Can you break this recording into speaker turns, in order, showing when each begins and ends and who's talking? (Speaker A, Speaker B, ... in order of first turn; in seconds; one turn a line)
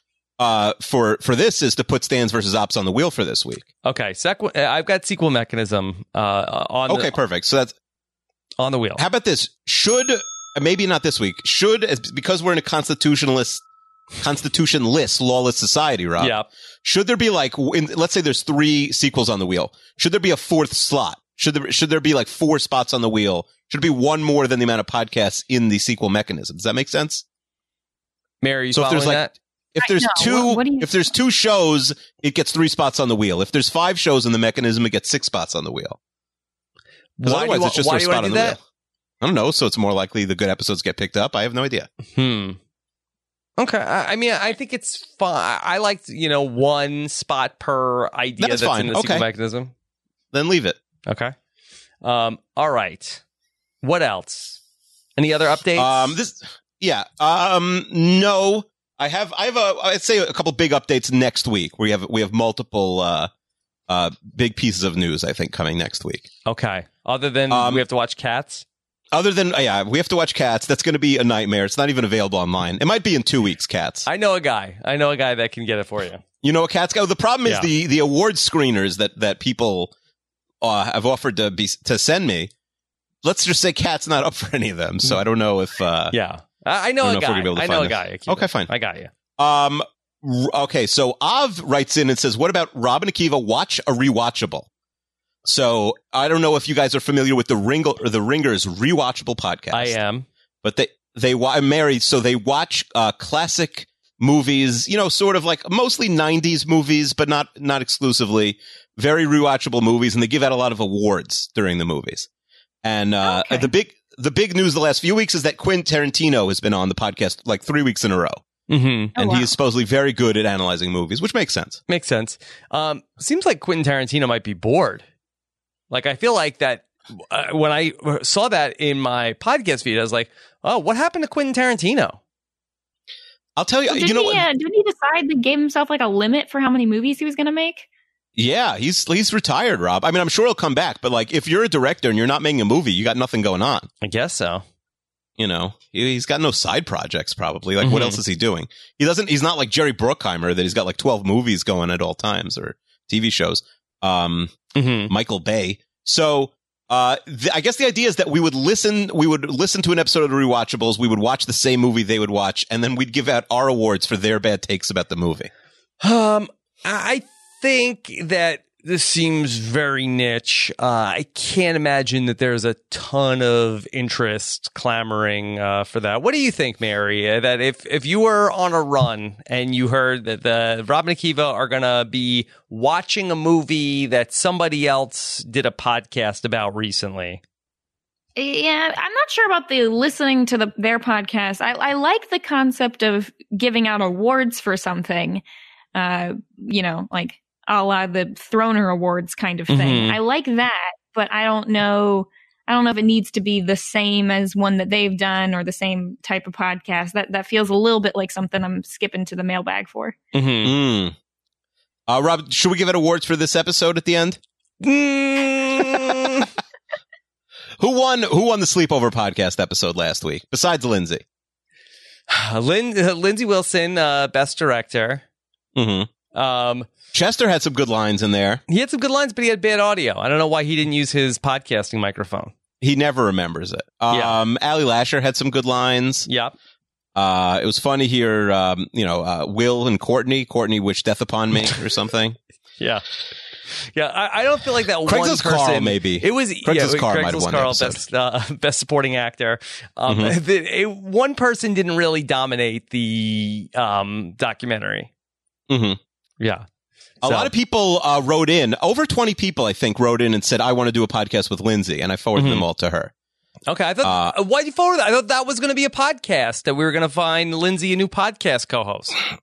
Speaker A: 0.4-3.7
Speaker B: 3.8-7.2
Speaker A: 6.9-7.7
Speaker B: 8.6-9.0
Speaker A: 9.0-13.6
Speaker A: 14.2-27.2
Speaker B: 16.2-16.5
Speaker B: 28.4-29.3
Speaker A: 28.7-36.0
Speaker C: 29.8-31.1
Speaker B: 37.2-38.6
Speaker A: 37.2-38.6
Speaker A: 39.2-41.9
Speaker B: 42.1-42.6
Speaker B: 43.6-49.7
Speaker A: 48.4-49.3
Speaker A: 50.3-50.8
Speaker B: 51.1-51.3
Speaker B: 52.0-53.2
Speaker B: 53.8-54.6
Speaker B: 55.2-56.1
Speaker A: 55.8-63.3
Speaker A: 63.9-66.3
Speaker B: 66.5-68.7
Speaker A: 67.5-67.8
Speaker A: 69.1-74.1
Speaker B: 74.1-76.2
Speaker A: 76.4-79.9
Speaker A: 80.6-82.5
Speaker A: 83.2-86.2
Speaker B: 86.1-89.1
Speaker A: 87.0-88.7
Speaker A: 89.4-94.7
Speaker A: 95.5-100.0
Speaker B: 99.7-100.3
Speaker A: 100.6-112.3
Speaker A: 112.8-118.4
Speaker C: 113.2-113.7
Speaker B: 118.7-119.2
Speaker C: 119.2-119.5
Speaker A: 119.2-121.8
Speaker B: 121.9-125.0
Speaker B: 125.9-132.2
Speaker A: 133.6-134.4
Speaker C: 133.9-137.9
Speaker A: 138.4-143.9
Speaker B: 144.0-144.6
Speaker A: 145.4-154.6
Speaker B: 147.8-148.2
Speaker B: 154.8-155.1
Speaker A: 155.1-165.5
Speaker B: 166.0-187.4
Speaker C: 188.4-195.4
Speaker C: 195.9-210.2
Speaker B: 199.7-200.2
Speaker B: 210.3-210.7
Speaker A: 210.6-211.2
Speaker A: 212.1-214.4
Speaker B: 214.8-216.5
Speaker A: 217.8-221.2
Speaker B: 222.3-225.2
Speaker A: 225.8-226.1
Speaker B: 226.3-226.9
Speaker A: 227.1-228.6
Speaker B: 228.7-232.5
Speaker A: 232.8-236.3
Speaker B: 234.1-234.4
Speaker B: 236.3-236.5
Speaker A: 237.2-242.4
Speaker B: 242.8-243.0
Speaker B: 243.8-255.1
Speaker A: 245.1-248.0
Speaker A: 250.1-250.3
Speaker A: 255.7-256.0
Speaker B: 256.4-256.6
Speaker B: 257.2-257.5
Speaker A: 257.2-263.1
Speaker B: 262.4-262.6
Speaker B: 263.7-269.2
Speaker A: 264.0-264.3